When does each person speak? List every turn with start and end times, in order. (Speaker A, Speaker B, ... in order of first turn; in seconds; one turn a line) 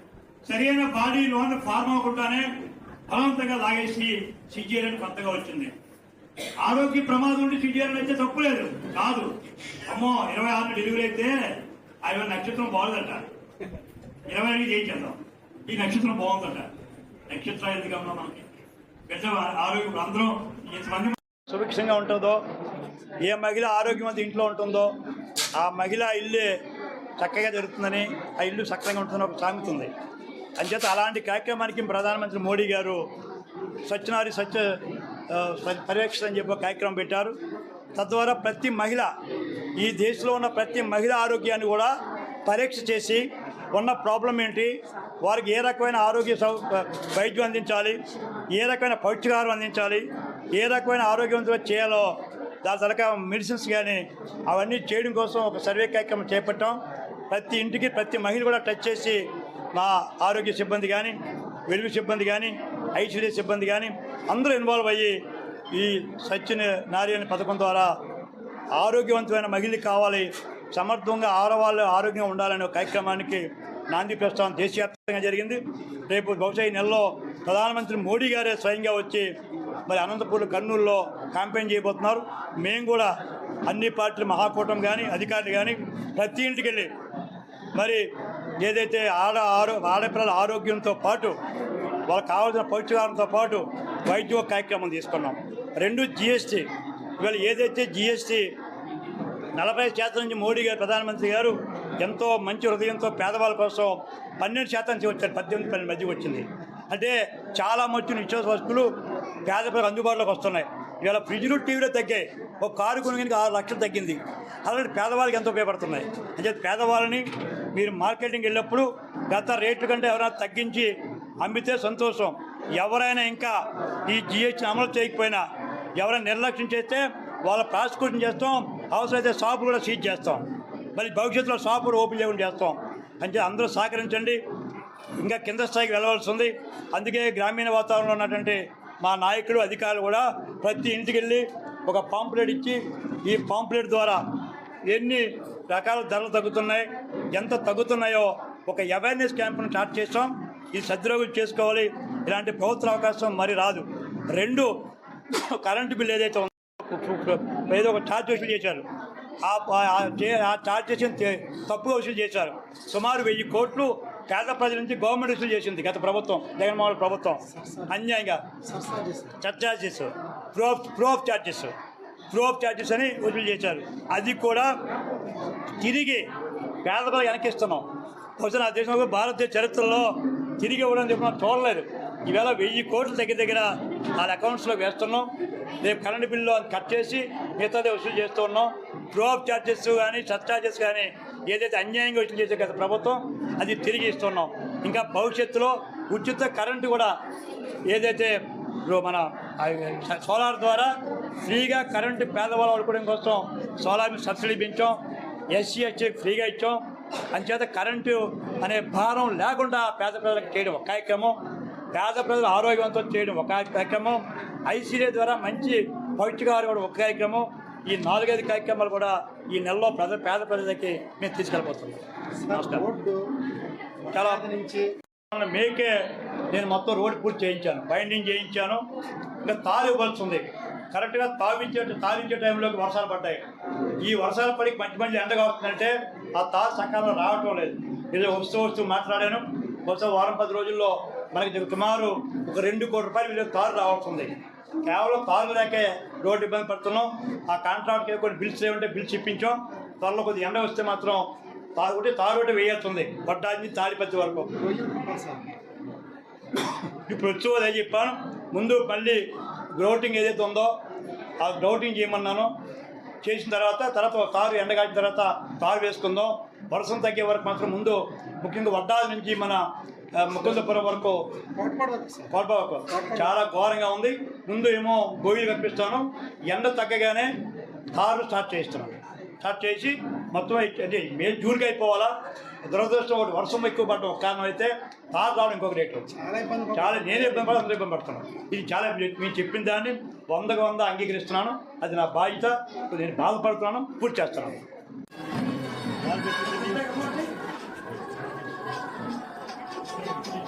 Speaker A: 0.5-2.5
Speaker A: 3.1-5.7
Speaker A: 6.6-9.3
Speaker A: 9.8-11.3
Speaker A: 12.0-13.2
Speaker A: 14.3-16.7
Speaker A: 17.3-18.4
Speaker A: 19.1-22.4
Speaker A: 23.2-24.9
Speaker A: 25.6-26.5
Speaker A: 27.2-29.9
Speaker A: 30.6-33.0
Speaker A: 33.9-34.6
Speaker A: 35.3-37.4
Speaker A: 37.9-39.1
Speaker A: 39.8-41.9
Speaker A: 42.5-48.0
Speaker A: 48.5-52.1
Speaker A: 52.6-56.8
Speaker A: 57.3-65.1
Speaker A: 65.7-67.9
Speaker A: 68.7-79.3
Speaker A: 79.9-83.1
Speaker A: 83.7-86.9
Speaker A: 87.7-88.0
Speaker A: 88.6-91.3
Speaker A: 92.1-96.7
Speaker A: 97.2-98.5
Speaker A: 99.5-108.9
Speaker A: 109.4-125.4
Speaker A: 126.0-134.4
Speaker A: 135.2-144.2
Speaker A: 144.8-154.7
Speaker A: 155.3-158.8
Speaker A: 159.4-168.5
Speaker B: 167.5-167.9
Speaker B: 168.6-169.3
Speaker A: 169.4-171.7
Speaker A: 172.3-174.7
Speaker A: 175.8-176.2
Speaker A: 176.8-177.8
Speaker A: 178.4-185.3
Speaker A: 185.8-197.1
Speaker A: 197.9-200.9
Speaker A: 201.4-204.9
Speaker A: 205.5-206.8
Speaker A: 207.3-211.3
Speaker A: 211.9-222.8
Speaker B: 222.4-223.2
Speaker B: 224.1-224.8
Speaker A: 224.1-224.4
Speaker A: 225.3-228.8
Speaker A: 229.4-233.4
Speaker A: 234.0-244.3
Speaker A: 244.8-251.2
Speaker A: 251.8-254.5
Speaker B: 254.6-255.4
Speaker A: 256.6-260.7
Speaker A: 261.4-262.5
Speaker A: 263.2-269.6
Speaker A: 270.1-271.2
Speaker B: 271.6-272.3
Speaker A: 272.3-277.3
Speaker B: 272.9-273.3
Speaker A: 277.9-282.1
Speaker A: 282.6-286.1
Speaker B: 286.1-287.6
Speaker A: 286.7-294.6
Speaker A: 296.0-297.3